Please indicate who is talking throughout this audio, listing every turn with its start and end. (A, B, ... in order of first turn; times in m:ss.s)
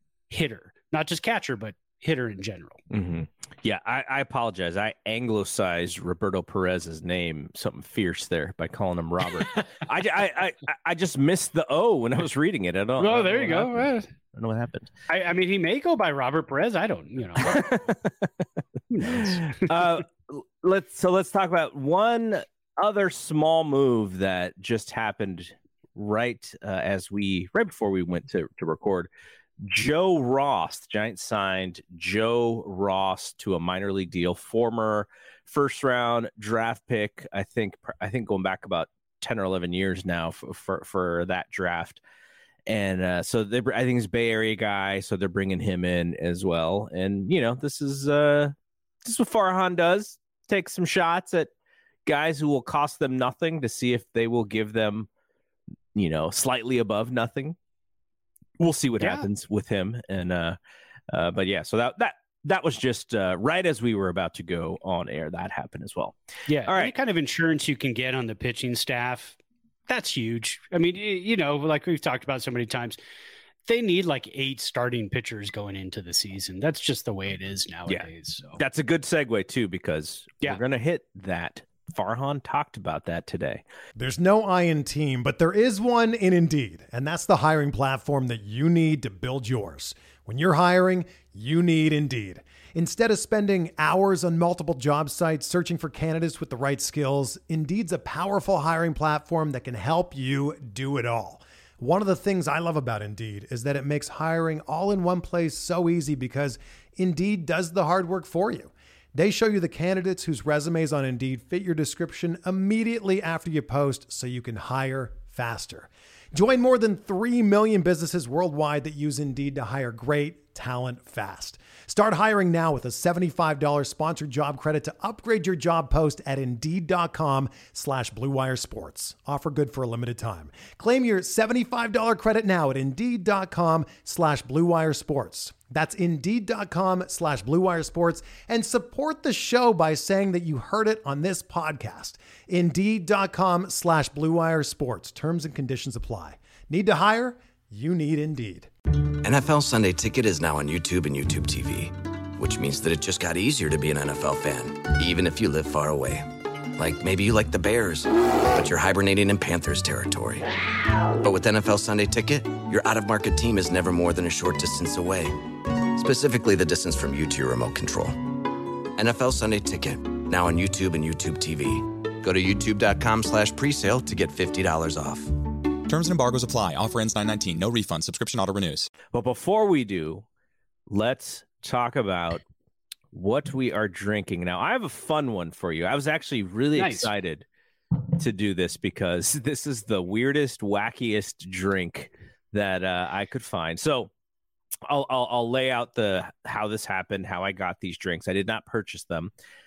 0:00.3-0:02.8 A
0:02.9-0:14.9 B
0:13.0-0:14.1 A
0:15.1-0:17.7 A
0:17.4-0:18.3 B
0:18.9-0:19.7 A
0:19.1-0:29.1 B
0:29.6-0:42.0 B
0:42.7-0:51.5 B
0:52.0-0:55.1 B
0:55.9-0:57.6 B
0:58.6-1:00.6 B
0:59.0-0:59.3 A
1:01.1-1:06.9 B
1:06.5-1:13.0 A
1:13.6-1:18.6 A
1:17.9-1:23.6 B
1:24.0-2:28.7 C
2:29.2-2:36.2 D
2:36.8-2:40.4 D
2:41.2-2:48.3 D
2:49.0-2:55.4 D
2:55.8-2:58.9 E
2:59.1-3:00.2 B
3:00.9-3:02.4 B
3:03.1-3:07.4 B
3:06.8-3:07.1 A
3:08.2-3:14.1 B
3:14.9-3:19.3 B